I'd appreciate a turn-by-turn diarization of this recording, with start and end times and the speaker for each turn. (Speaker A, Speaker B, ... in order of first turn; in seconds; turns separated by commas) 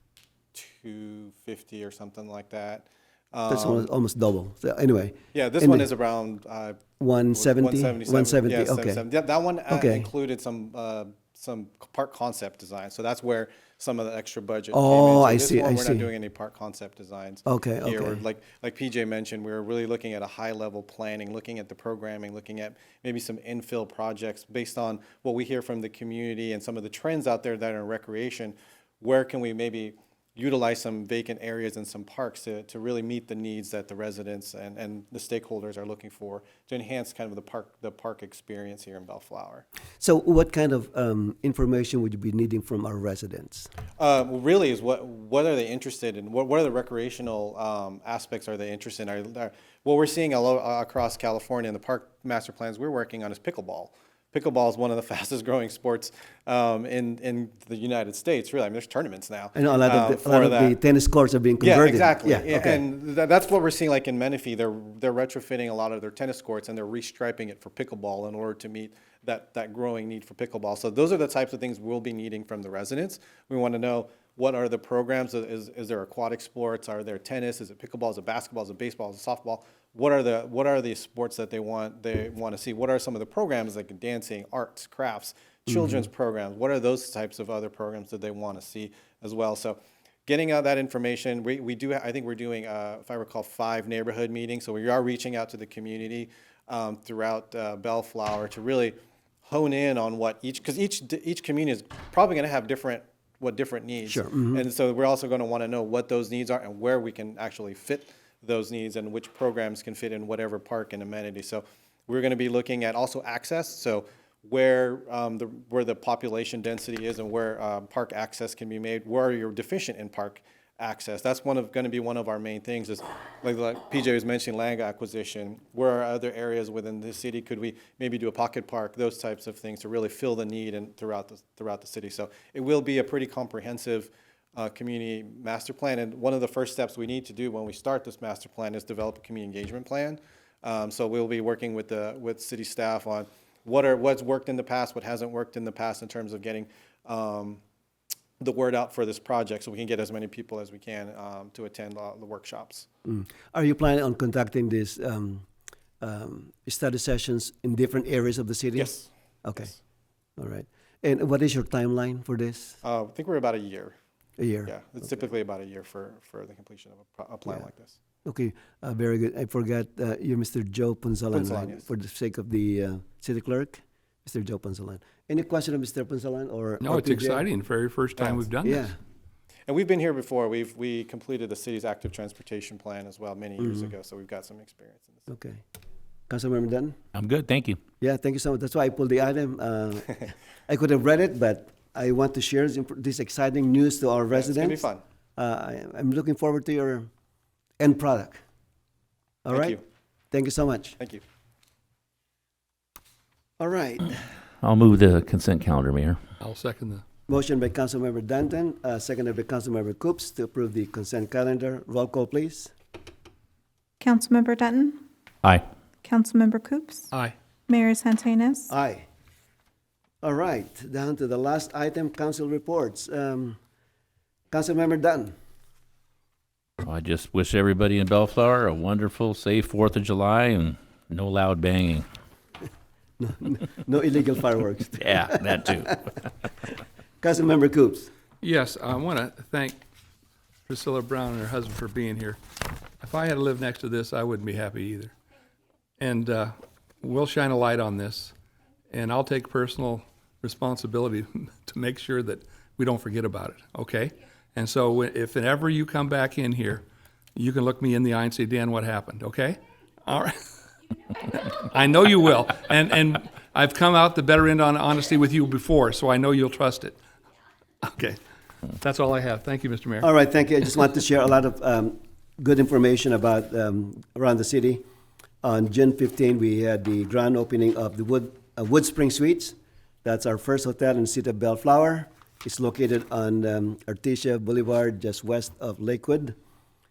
Speaker A: 0.5-3.9, Speaker B: 3.5-5.9, Speaker A: 5.3-39.7, Speaker B: 7.0-9.0, Speaker B: 9.7-10.1, Speaker B: 14.7-16.1, Speaker B: 17.5-18.2, Speaker B: 40.0-43.7, Speaker A: 44.0-60.8, Speaker B: 59.5-62.8, Speaker A: 61.6-147.6, Speaker B: 104.0-104.6, Speaker A: 148.4-152.9, Speaker B: 153.1-155.5, Speaker B: 156.0-159.7, Speaker A: 158.8-159.8, Speaker B: 160.4-162.8, Speaker A: 162.8-164.0, Speaker B: 164.4-164.7, Speaker A: 164.7-168.0, Speaker B: 168.2-177.5, Speaker A: 171.3-171.9, Speaker C: 176.8-178.9, Speaker A: 178.2-178.5, Speaker B: 178.6-179.0, Speaker A: 179.7-185.3, Speaker B: 183.6-183.9, Speaker B: 185.3-185.6, Speaker B: 186.3-186.9, Speaker D: 187.2-187.8, Speaker B: 188.0-197.1, Speaker A: 194.3-195.0, Speaker B: 197.8-198.4, Speaker B: 199.4-201.0, Speaker A: 199.5-199.8, Speaker B: 203.6-204.2, Speaker D: 204.6-206.2, Speaker C: 206.4-207.0, Speaker B: 207.3-212.7, Speaker E: 214.0-215.0, Speaker E: 216.0-217.1, Speaker E: 217.7-218.7, Speaker B: 218.7-219.1, Speaker B: 220.2-223.6, Speaker B: 224.5-225.3, Speaker D: 226.8-232.1, Speaker B: 233.2-235.4, Speaker D: 235.0-236.0, Speaker B: 237.2-238.1, Speaker C: 238.4-239.8, Speaker C: 240.7-242.4, Speaker C: 243.0-245.1, Speaker C: 246.0-248.3, Speaker C: 248.9-256.8, Speaker C: 257.4-260.4, Speaker C: 261.3-267.0, Speaker C: 267.8-268.2, Speaker C: 268.8-270.1, Speaker B: 270.0-274.8, Speaker B: 275.4-286.4